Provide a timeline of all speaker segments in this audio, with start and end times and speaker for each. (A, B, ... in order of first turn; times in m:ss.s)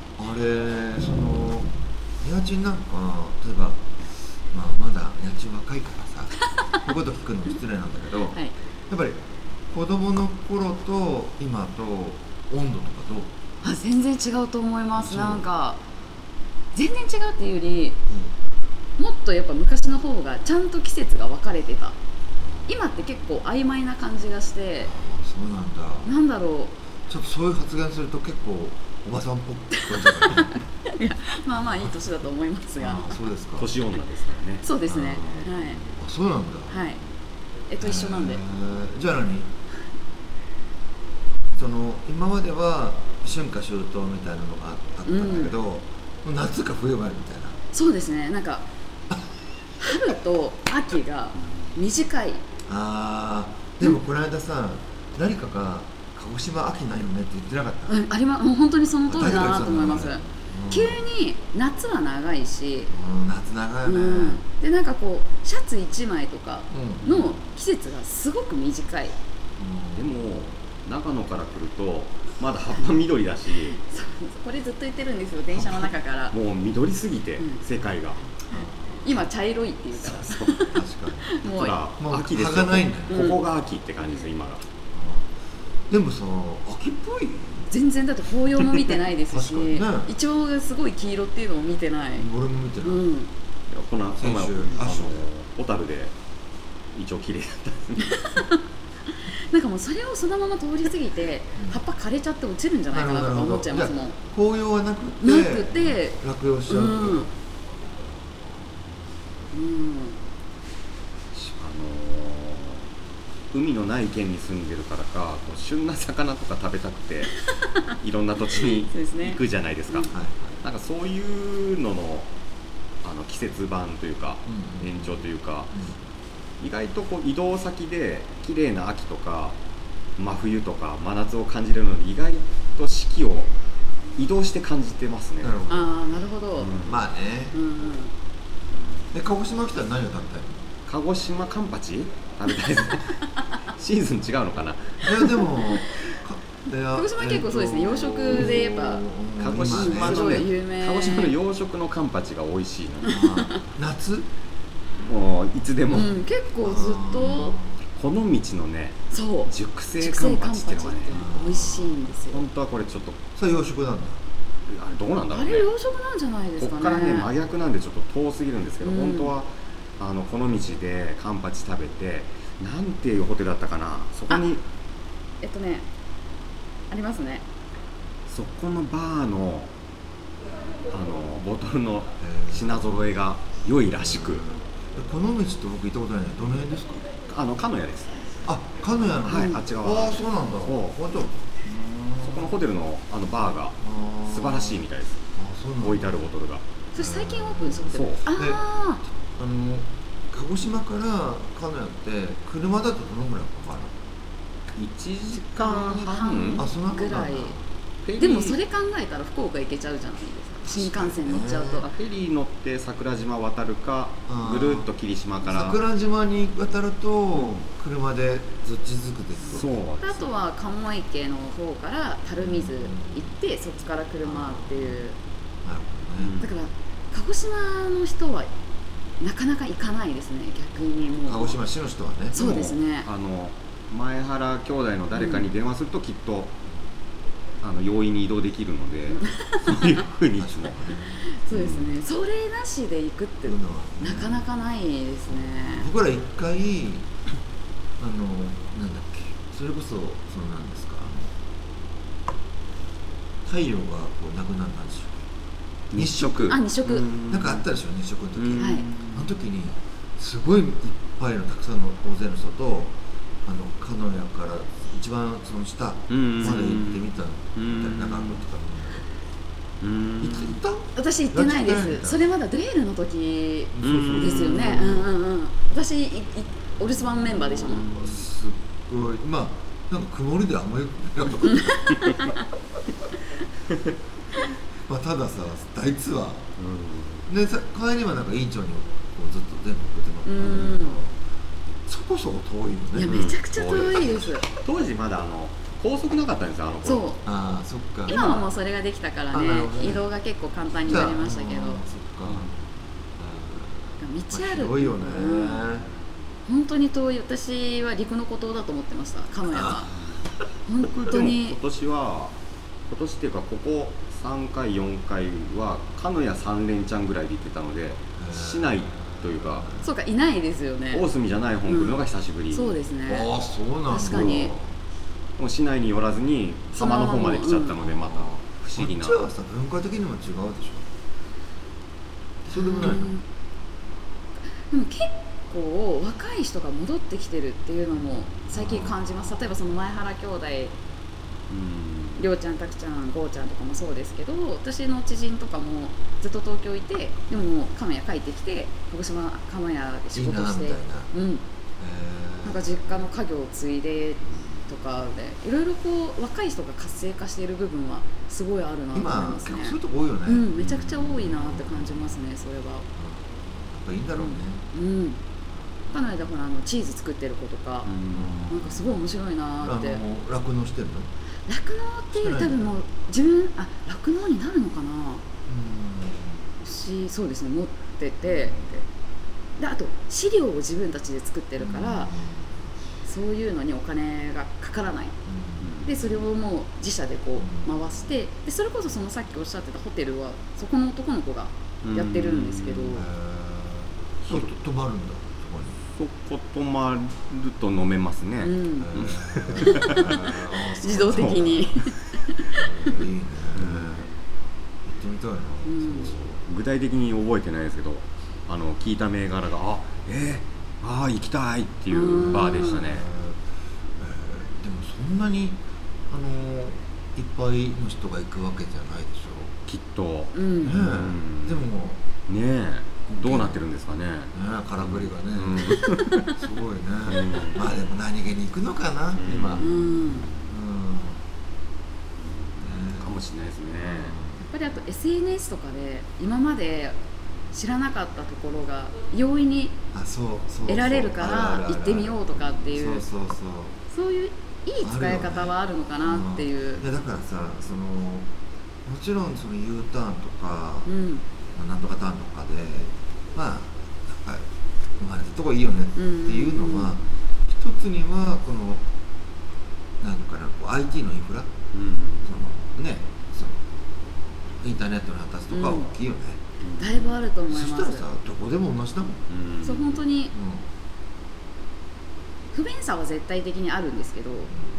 0:00.2-0:03.9 A
0:04.5-0:13.3 A
0:13.6-0:15.8 B
0:15.0-0:15.4 A
0:16.7-0:18.0 B
0:19.0-0:22.0 B
0:22.7-0:24.9 B
0:24.9-0:26.1 A
0:26.1-0:26.8 B
0:27.1-0:30.7 A
0:29.8-0:33.2 B
0:32.8-0:33.7 A
0:33.6-0:35.5 C
0:34.6-0:35.8 B
0:34.9-0:36.9 A
0:36.7-0:37.0 B
0:37.7-0:38.4 B
0:37.8-0:39.5 A
0:41.5-0:47.6 A
0:45.1-0:45.5 B
0:47.7-0:48.7 B
0:49.8-0:52.4 B
0:52.7-0:58.0 A
0:57.9-1:02.9 B
0:59.1-1:01.0 A
1:02.9-1:04.4 A
1:03.8-1:09.2 B
1:06.7-1:07.0 A
1:07.0-1:07.5 C
1:09.6-1:10.2 A
1:10.0-1:13.8 C
1:13.8-1:16.4 B
1:16.3-1:18.3 C
1:18.5-1:19.2 A
1:19.0-1:21.8 B
1:20.1-1:20.5 C
1:20.7-1:21.4 A
1:21.4-1:24.7 C
1:22.0-1:23.3 A
1:23.1-1:23.4 B
1:24.9-1:25.4 A
1:25.9-1:27.7 A
1:27.7-1:32.3 B
1:29.3-1:30.1 A
1:32.2-1:33.0 A
1:32.8-1:33.3 B
1:33.7-1:36.1 C
1:34.2-1:35.2 A
1:36.9-1:38.2 C
1:38.1-1:38.6 B
1:39.2-1:44.2 B
1:41.6-1:41.8 A
1:42.9-1:47.3 A
1:45.2-1:46.2 B
1:46.7-1:47.3 B
1:49.5-1:50.2 B
1:51.4-1:52.9 C
1:53.5-2:02.3 C
1:58.5-2:00.1 B
2:00.1-2:00.6 A
2:03.0-2:05.7 C
2:04.5-2:06.0 A
2:06.6-2:09.6 C
2:10.2-2:13.5 C
2:14.2-2:15.6 C
2:15.4-2:16.0 A
2:15.7-2:16.7 B
2:16.6-2:17.0 C
2:16.8-2:17.6 A
2:17.5-2:18.1 B
2:19.1-2:20.7 A
2:20.9-2:25.4 C
2:25.0-2:30.4 A
2:26.9-2:29.1 B
2:29.4-2:33.3 C
2:29.6-2:31.3 B
2:33.0-2:34.3 A
2:33.1-2:33.6 B
2:35.0-2:36.2 C
2:35.9-2:37.6 B
2:36.6-2:37.8 A
2:38.0-2:41.3 C
2:39.1-2:42.4 B
2:41.1-2:42.0 A
2:42.3-2:43.2 C
2:43.4-2:44.2 A
2:44.7-2:45.7 C
2:45.3-2:47.3 B
2:46.6-2:54.6 C
2:48.8-2:49.3 B
2:55.4-2:55.9 B
2:56.9-2:57.5 B
2:58.3-2:59.7 C
3:00.9-3:04.4 C
3:02.2-3:03.0 A
3:03.9-3:07.0 A
3:07.3-3:08.2 C
3:08.4-3:12.6 A
3:09.2-3:11.0 C
3:09.3-3:09.6 B
3:12.2-3:15.2 C
3:13.8-3:16.2 A
3:15.8-3:16.6 C
3:16.9-3:19.0 B
3:17.0-3:24.0 A
3:17.9-3:18.2 C
3:24.8-3:26.6 C
3:25.5-3:27.6 B
3:26.6-3:27.6 A
3:28.0-3:28.6 C
3:28.2-3:31.9 B
3:30.7-3:31.8 A
3:31.8-3:35.8 C
3:34.3-3:34.9 A
3:35.4-3:39.9 A
3:37.4-3:37.6 C
3:39.5-3:40.3 C
3:40.0-3:45.2 B
3:42.4-3:43.3 A
3:44.2-3:45.1 A
3:45.6-3:46.4 A
3:46.2-3:46.5 C
3:46.4-3:48.5 B
3:49.2-3:51.6 B
3:51.2-3:52.4 A
3:52.3-3:53.1 B
3:52.3-3:56.6 C
3:55.2-3:55.5 B
3:57.6-4:00.9 C
3:59.2-4:00.0 B
4:00.4-4:01.2 A
4:01.2-4:05.9 B
4:01.5-4:01.9 C
4:03.5-4:04.4 A
4:05.3-4:07.1 A
4:08.0-4:11.3 A
4:13.4-4:15.3 A
4:15.9-4:17.7 C
4:15.9-4:16.5 A
4:16.5-4:17.1 B
4:17.2-4:29.0 A
4:18.4-4:19.4 C
4:18.6-4:18.9 B
4:26.1-4:28.4 C
4:29.8-4:30.6 C
4:30.2-4:32.3 A
4:31.0-4:37.9 B
4:33.7-4:35.1 A
4:33.8-4:35.0 C
4:37.4-4:42.2 A
4:37.8-4:38.2 C
4:41.5-4:42.4 B
4:44.9-4:46.5 A
4:46.6-4:47.3 C
4:47.3-4:51.2 A
4:50.2-4:51.0 B
4:51.9-4:53.2 A
4:52.9-4:54.5 B
4:53.1-4:57.2 C
4:56.8-4:57.2 B
4:57.2-4:58.4 A
4:58.1-5:01.8 B
4:58.1-4:58.4 C
4:59.3-5:00.0 A
5:00.8-5:02.5 A
5:02.3-5:02.5 C
5:03.2-5:05.9 A
5:04.0-5:05.7 B
5:06.5-5:09.9 B
5:09.5-5:09.9 A
5:10.7-5:11.6 B
5:10.8-5:12.4 C
5:12.9-5:19.7 C
5:18.2-5:19.9 A
5:19.8-5:21.1 B
5:20.9-5:22.8 C
5:21.7-5:22.0 B
5:22.5-5:23.3 B
5:23.1-5:24.7 A
5:23.9-5:24.5 B
5:24.0-5:24.5 C
5:25.4-5:29.2 C
5:26.8-5:27.8 B
5:27.8-5:30.9 A
5:32.4-5:33.1 A
5:32.5-5:33.2 B
5:34.7-5:40.8 B
5:38.5-5:38.9 A
5:41.5-5:42.2 C
5:42.2-5:51.4 B
5:50.1-5:51.1 A
5:51.8-5:52.8 A
5:52.4-6:02.9 B
5:58.9-6:02.2 A
6:03.0-6:04.6 A
6:04.2-6:05.2 B
6:05.9-6:07.9 B
6:07.8-6:08.5 C
6:08.1-6:09.0 A
6:08.5-6:10.0 B
6:09.6-6:11.1 A
6:11.5-6:15.2 B
6:12.1-6:12.7 A
6:15.5-6:16.4 A
6:16.6-6:18.9 B
6:19.6-6:22.1 B
6:21.6-6:22.6 A
6:23.0-6:25.2 B
6:25.3-6:25.8 A
6:25.6-6:26.0 C
6:25.8-6:33.1 B
6:27.4-6:27.8 A
6:31.8-6:33.0 C
6:32.9-6:35.8 A
6:36.0-6:40.3 C
6:38.4-6:40.2 B
6:38.8-6:41.7 A
6:40.8-6:43.0 B
6:41.0-6:41.9 C
6:42.5-6:44.1 A
6:43.5-6:44.1 C
6:44.8-6:46.2 A
6:45.6-6:46.1 B
6:45.8-6:53.1 C
6:51.9-6:52.8 B
6:52.4-6:53.4 A
6:54.0-6:59.6 A
6:59.7-7:01.7 C
7:00.3-7:00.8 B
7:00.6-7:02.0 A
7:02.3-7:06.3 C
7:03.1-7:03.6 A
7:04.3-7:09.8 A
7:07.1-7:07.7 C
7:09.2-7:10.5 C
7:09.6-7:10.3 B
7:10.4-7:11.2 A
7:12.2-7:14.2 C
7:12.6-7:13.1 A
7:13.8-7:14.4 A
7:14.4-7:17.0 B
7:17.5-7:19.8 B
7:19.9-7:23.8 A
7:20.7-7:23.0 B
7:23.9-7:26.8 B
7:24.8-7:28.3 A
7:28.8-7:30.9 A
7:30.9-7:31.2 B
7:31.5-7:34.5 A
7:35.0-7:38.8 A
7:36.0-7:37.0 B
7:40.0-7:41.5 A
7:41.7-7:42.3 C
7:42.2-7:43.6 A
7:44.6-7:46.4 A
7:45.5-7:45.9 B
7:46.6-7:47.1 C
7:46.8-7:48.0 B
7:47.5-7:49.3 A
7:49.3-7:50.0 C
7:49.6-7:50.3 B
7:50.3-7:50.7 A
7:52.5-7:54.5 B